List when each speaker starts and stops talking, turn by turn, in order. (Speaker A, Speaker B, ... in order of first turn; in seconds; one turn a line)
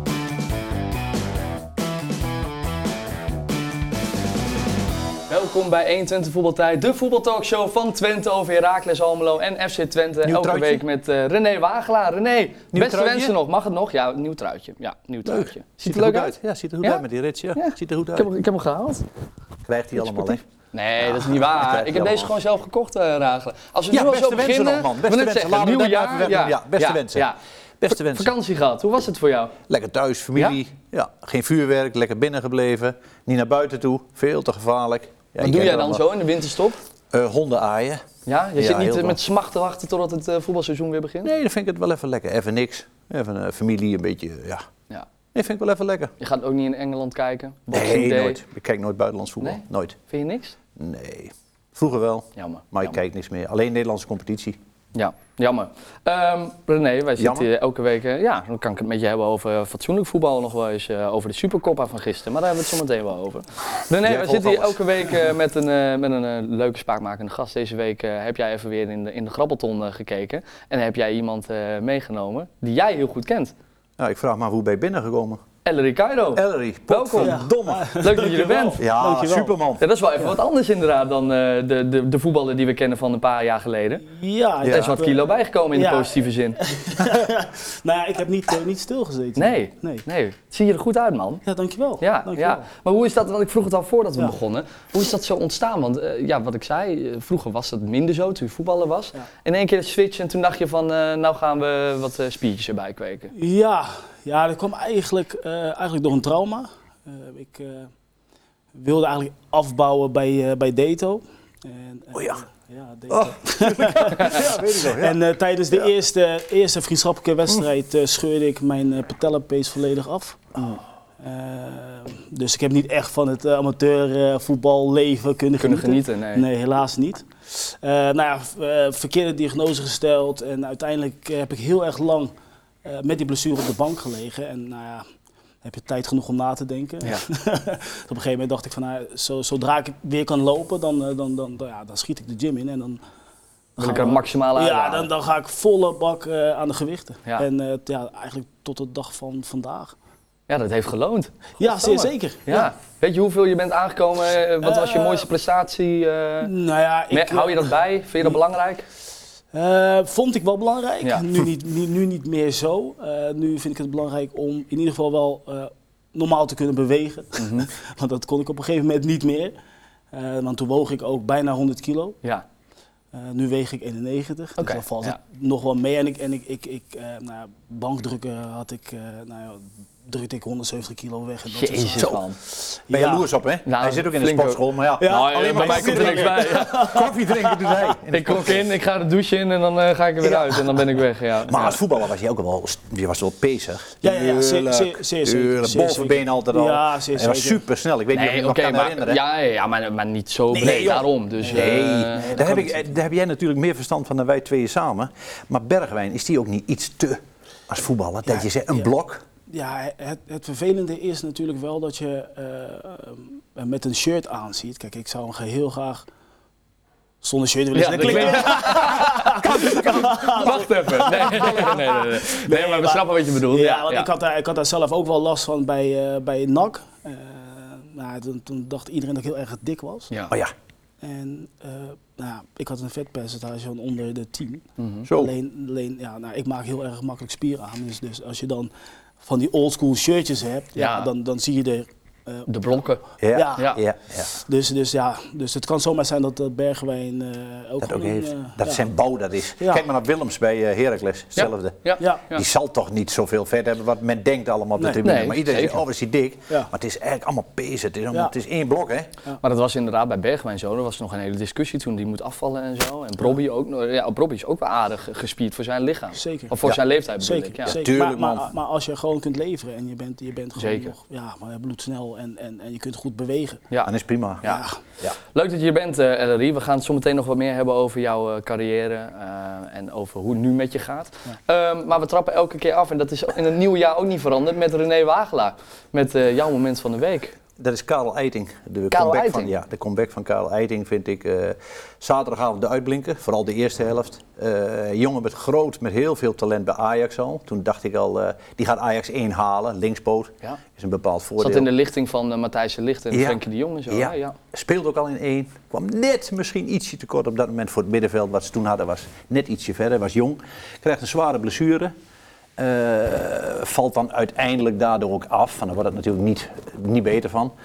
Speaker A: 5.3-17.0
Speaker B: 10.2-10.8
Speaker B: 12.7-13.3
Speaker B: 15.2-18.3
Speaker A: 17.5-19.0
Speaker B: 19.6-20.4
Speaker A: 20.0-29.6
Speaker B: 21.0-22.3
Speaker B: 23.9-27.3
Speaker B: 27.8-28.3
Speaker B: 29.7-36.0
Speaker A: 35.4-36.8
Speaker B: 37.1-38.0
Speaker A: 38.2-41.3
Speaker B: 38.6-39.2
Speaker B: 41.2-44.6
Speaker B: 45.3-46.1
Speaker A: 46.2-48.4
Speaker B: 47.7-50.0
Speaker A: 49.4-50.5
Speaker B: 50.8-54.6
Speaker A: 52.4-53.0
Speaker A: 54.9-73.5
Speaker B: 57.2-57.5
Speaker B: 64.0-64.8
Speaker B: 74.0-75.4
Speaker A: 75.6-77.4
Speaker B: 76.3-77.8
Speaker C: 77.2-79.5
Speaker A: 78.0-78.8
Speaker B: 78.8-79.8
Speaker A: 79.8-84.0
Speaker C: 84.0-90.0
Speaker B: 84.6-84.9
Speaker A: 84.7-86.6
Speaker A: 89.3-91.4
Speaker C: 91.5-92.6
Speaker A: 92.0-103.3
Speaker C: 103.3-107.9
Speaker C: 108.7-132.3
Speaker B: 112.1-112.4
Speaker B: 113.1-115.2
Speaker A: 125.6-126.5
Speaker C: 132.8-135.0
Speaker C: 135.6-143.0
Speaker C: 143.8-149.9
Speaker A: 143.8-145.1
Speaker A: 150.5-156.5
Speaker C: 151.6-152.7
Speaker C: 154.6-155.3
Speaker C: 156.4-158.4
Speaker A: 157.1-158.8
Speaker C: 159.5-169.5
Speaker A: 167.4-167.7
Speaker C: 170.1-172.2
Speaker C: 173.1-182.2
Speaker A: 174.6-175.2
Speaker A: 181.5-182.4
Speaker C: 182.8-183.3
Speaker B: 182.9-188.6
Speaker A: 183.7-187.0
Speaker C: 185.0-187.8
Speaker A: 188.1-191.8
Speaker B: 191.4-199.2
Speaker C: 194.0-197.6
Speaker A: 198.1-202.4
Speaker C: 200.5-202.9
Speaker B: 200.6-209.2
Speaker C: 208.3-208.9
Speaker C: 209.5-216.0
Speaker C: 217.2-230.1
Speaker A: 217.8-224.1
Speaker B: 217.8-221.7
Speaker C: 231.0-238.7
Speaker A: 234.8-235.1
Speaker B: 235.1-235.3
Speaker C: 239.2-242.5
Speaker A: 240.8-241.1
Speaker A: 242.5-243.0
Speaker B: 243.2-244.3
Speaker C: 243.3-243.7
Speaker C: 244.3-248.8
Speaker B: 247.8-251.8
Speaker C: 249.6-249.8
Speaker A: 251.3-252.4
Speaker B: 252.3-259.1
Speaker A: 255.0-255.8
Speaker A: 259.4-267.8
Speaker C: 266.1-266.6
Speaker C: 267.2-273.6
Speaker B: 267.6-268.5
Speaker A: 270.6-270.9
Speaker B: 273.8-274.5
Speaker C: 274.4-274.8
Speaker A: 275.3-287.4
Speaker B: 287.6-301.7
Speaker A: 288.9-289.5
Speaker A: 301.4-304.4
Speaker B: 303.1-311.9
Speaker B: 312.6-317.5